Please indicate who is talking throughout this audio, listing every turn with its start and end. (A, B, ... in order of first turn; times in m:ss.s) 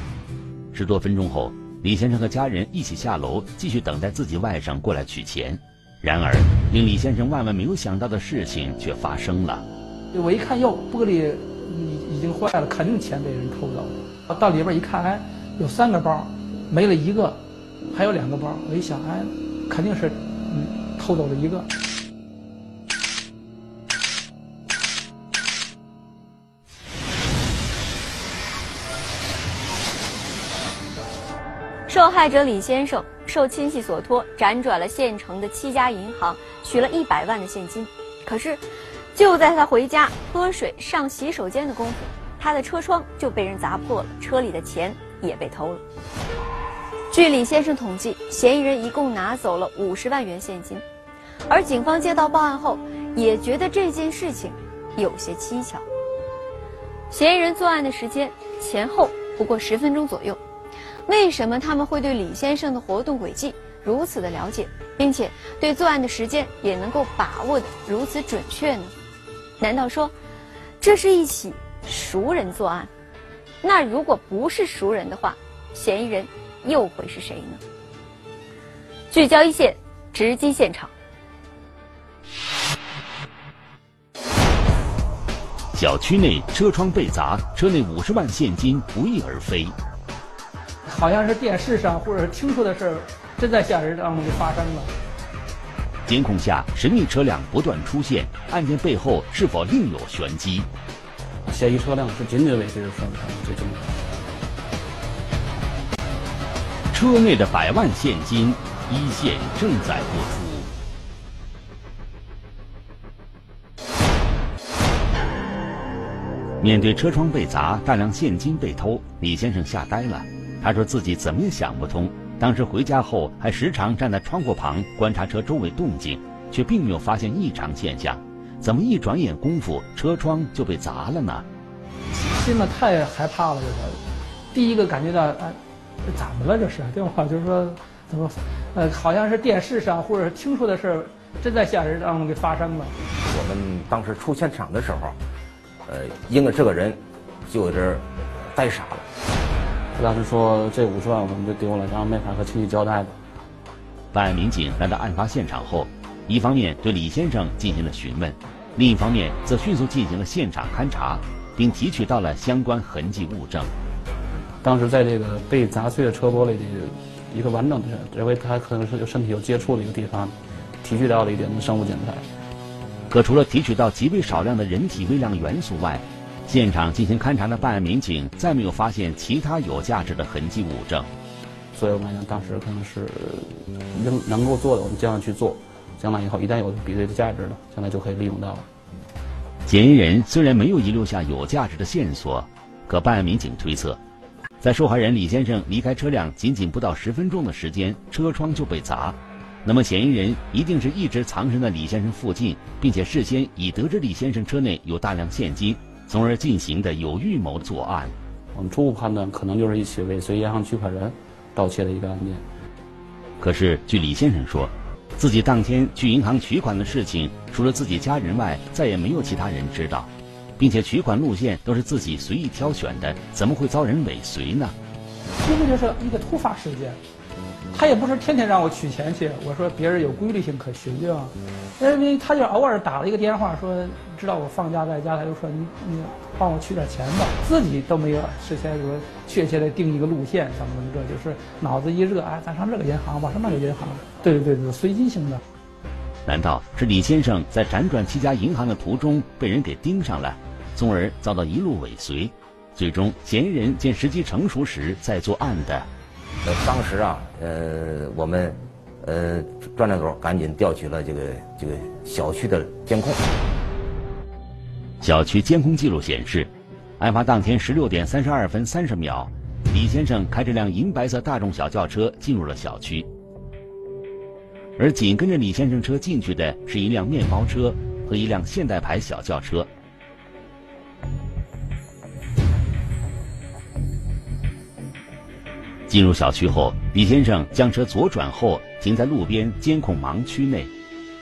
0:00.7-0:09.6 A
0:10.1-0:21.7 B
0:31.9-0:45.8 C
0:47.1-0:50.8 C
0:51.5-0:55.8 C
0:57.1-1:00.4 C
1:01.1-1:08.9 C
1:09.6-1:10.1 C
1:10.8-1:12.9 C
1:13.6-1:17.6 C
1:19.1-1:20.9 C
1:25.7-1:29.7 A
1:30.8-1:34.9 B
1:36.1-1:40.7 A
1:41.5-1:43.9 D
1:46.9-1:50.7 A
1:56.6-2:11.4 A
2:12.1-2:23.0 B
2:23.2-2:25.2 E
2:25.8-2:29.1 E
2:29.9-2:33.1 D
2:34.1-2:43.7 A
2:44.6-2:52.2 D
2:53.1-3:01.1 A
3:01.7-3:08.7 D
3:09.6-3:14.0 A
3:14.6-3:28.1 A
3:28.5-3:32.4 D
3:33.4-3:44.7 A
3:45.4-3:47.0 B
3:47.7-4:05.4 B
4:06.2-4:15.9 A
4:16.4-4:23.2 E
4:25.0-4:33.1 A
4:34.8-4:39.7 A
4:45.9-4:50.7 A